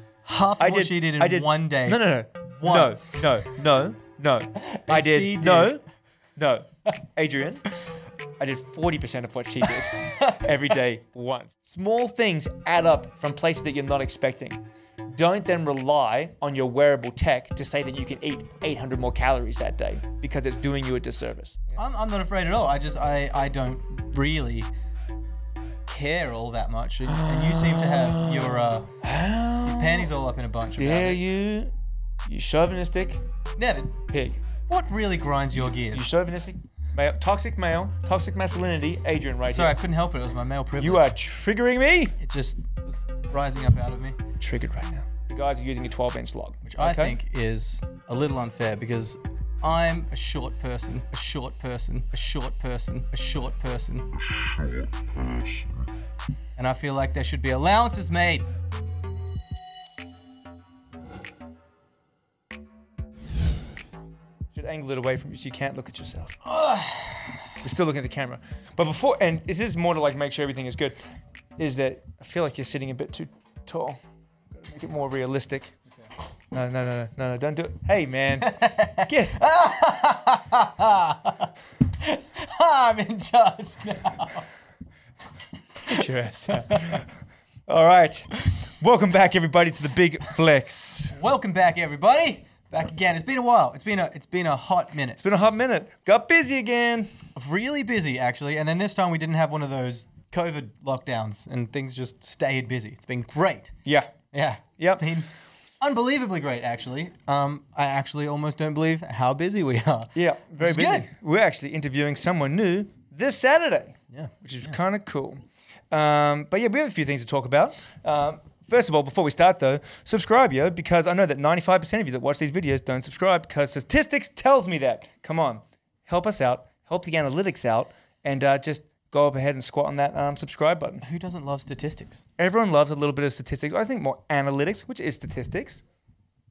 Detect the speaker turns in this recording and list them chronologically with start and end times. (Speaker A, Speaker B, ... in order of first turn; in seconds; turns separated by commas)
Speaker A: 0.2-2.1, Speaker B: 0.6-5.8, Speaker A: 2.6-3.2, Speaker A: 4.6-5.8, Speaker B: 6.4-7.6, Speaker B: 8.4-21.7, Speaker A: 10.1-10.4, Speaker A: 21.8-24.7, Speaker A: 25.9-28.9, Speaker B: 27.1-30.1, Speaker A: 29.6-31.2, Speaker B: 30.8-31.7, Speaker B: 32.3-33.2, Speaker A: 33.6-34.0, Speaker B: 34.1-34.4, Speaker A: 34.7-36.2, Speaker B: 35.9-39.8, Speaker A: 39.5-41.1, Speaker B: 40.8-42.2, Speaker A: 42.2-44.2, Speaker B: 44.4-47.2, Speaker A: 46.6-54.1, Speaker A: 56.6-58.5, Speaker B: 64.5-66.4, Speaker A: 66.5-67.5, Speaker B: 67.6-71.0, Speaker B: 71.6-74.0, Speaker B: 74.5-75.7, Speaker B: 76.5-79.4, Speaker A: 78.4-84.5, Speaker B: 85.9-87.1, Speaker A: 85.9-87.0, Speaker B: 87.7-91.2, Speaker A: 91.1-95.2, Speaker B: 95.2-97.1, Speaker A: 97.3-103.8, Speaker B: 103.8-104.1, Speaker A: 104.3-111.1, Speaker B: 104.8-105.0, Speaker B: 110.2-131.0, Speaker A: 114.1-114.7, Speaker A: 131.0-132.2, Speaker B: 132.4-135.8